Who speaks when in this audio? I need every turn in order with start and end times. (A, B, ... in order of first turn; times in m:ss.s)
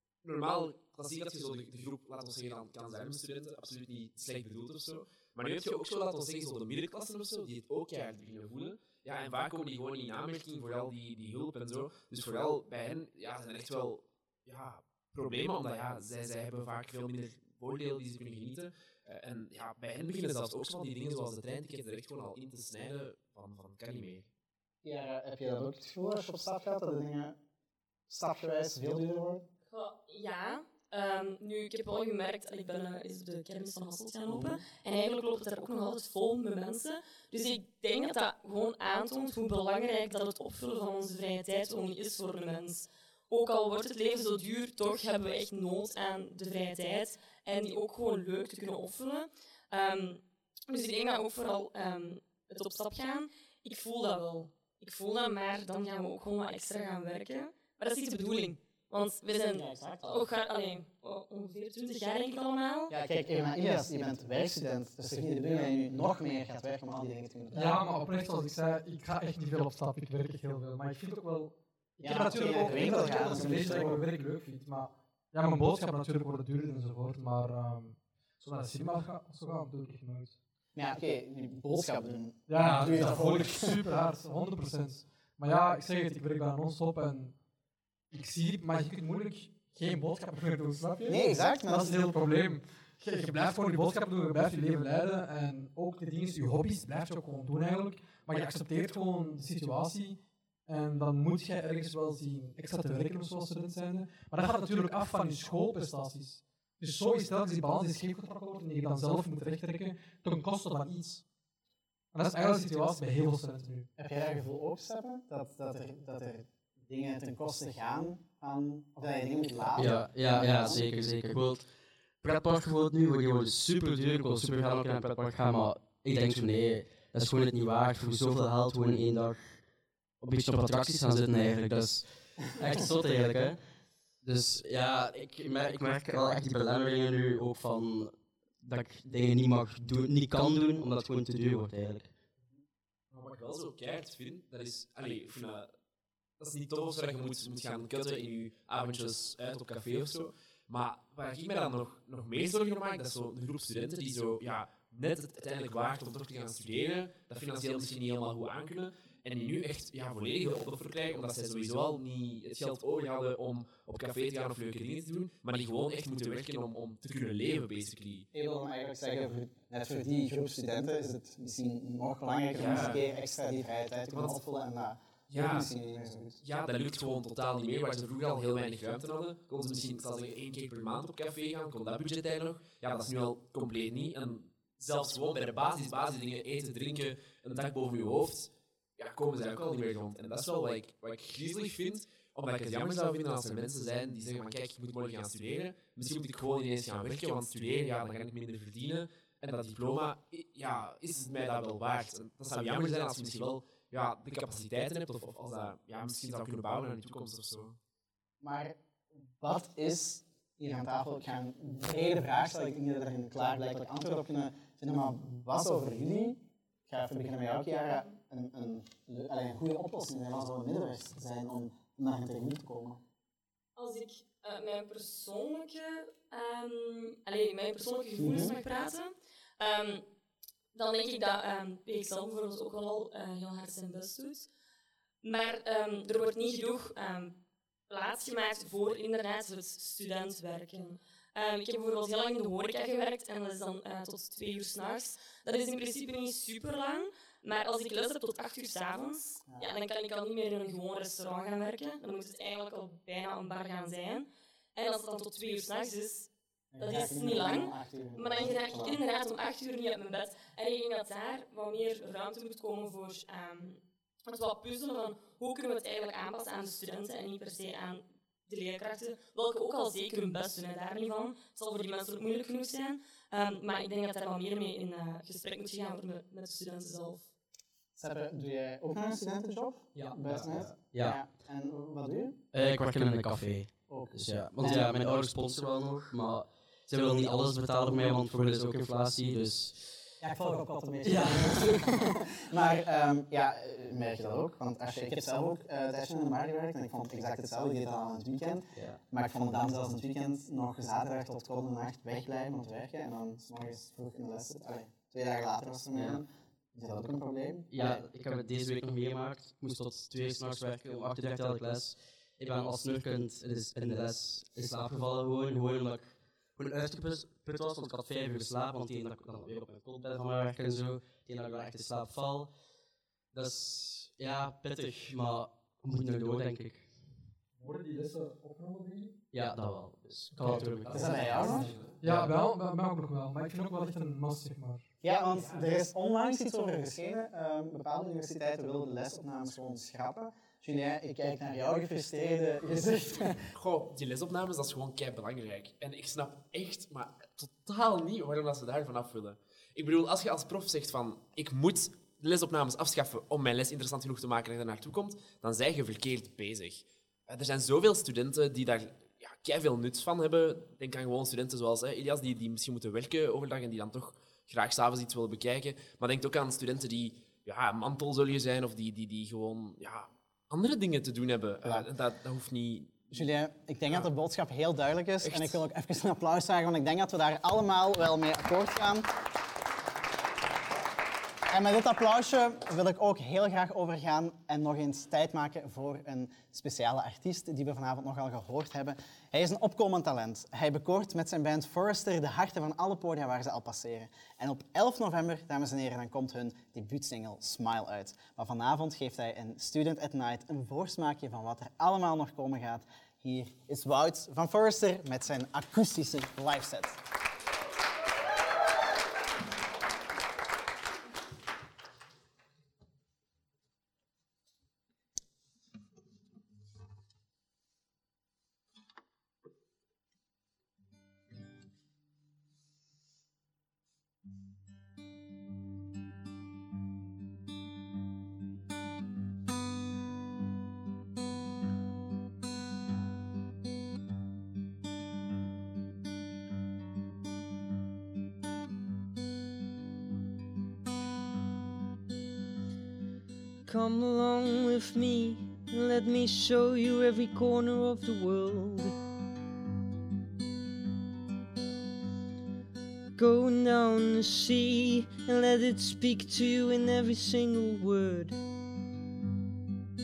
0:00.2-0:24.3 A
0:24.8-0:27.4 B
0:28.1-0:29.4 B
0:29.7-1:02.9 C
0:34.3-0:34.6 B
0:59.5-1:00.3 B
1:02.9-1:07.8 B
1:07.5-1:20.4 D
1:12.0-1:14.0 B
1:20.8-1:23.8 B
1:22.5-1:27.4 D
1:28.1-1:51.2 D
1:31.1-1:32.0 B
1:52.1-1:53.9 D
1:54.0-2:00.9 B
1:59.8-2:01.7 E
2:02.2-2:09.5 E
2:10.2-2:13.6 E
2:14.2-2:22.1 E
2:23.1-2:25.7 A
2:26.4-2:48.3 A
2:48.3-2:56.4 B
2:52.6-2:53.0 A
2:54.1-2:54.4 A
2:55.3-2:55.7 A
2:56.4-3:27.8 A
3:28.4-3:28.8 B
3:29.4-3:43.0 B
3:43.8-3:50.0 C
3:48.2-3:48.6 B
3:50.7-3:54.5 C
3:55.2-3:57.4 C
3:57.9-4:37.3 C
4:16.7-4:19.0 B
4:38.0-4:42.4 B
4:40.0-4:41.2 E
4:42.5-4:49.9 E
4:43.9-4:45.0 B
4:50.2-5:08.0 B
4:51.0-4:51.9 E
5:05.9-5:06.2 E
5:07.7-5:22.5 E
5:23.3-5:26.9 E
5:27.6-5:29.1 D
5:29.3-5:32.3 E
5:30.4-5:34.8 D
5:30.9-5:31.7 B
5:31.5-5:32.0 A
5:35.0-5:43.4 B
5:35.3-5:35.6 A
5:43.5-6:13.2 A
6:13.1-6:19.1 B
6:15.2-6:15.6 A
6:21.5-6:47.0 B
7:23.7-7:29.0 F
7:33.2-7:38.4 F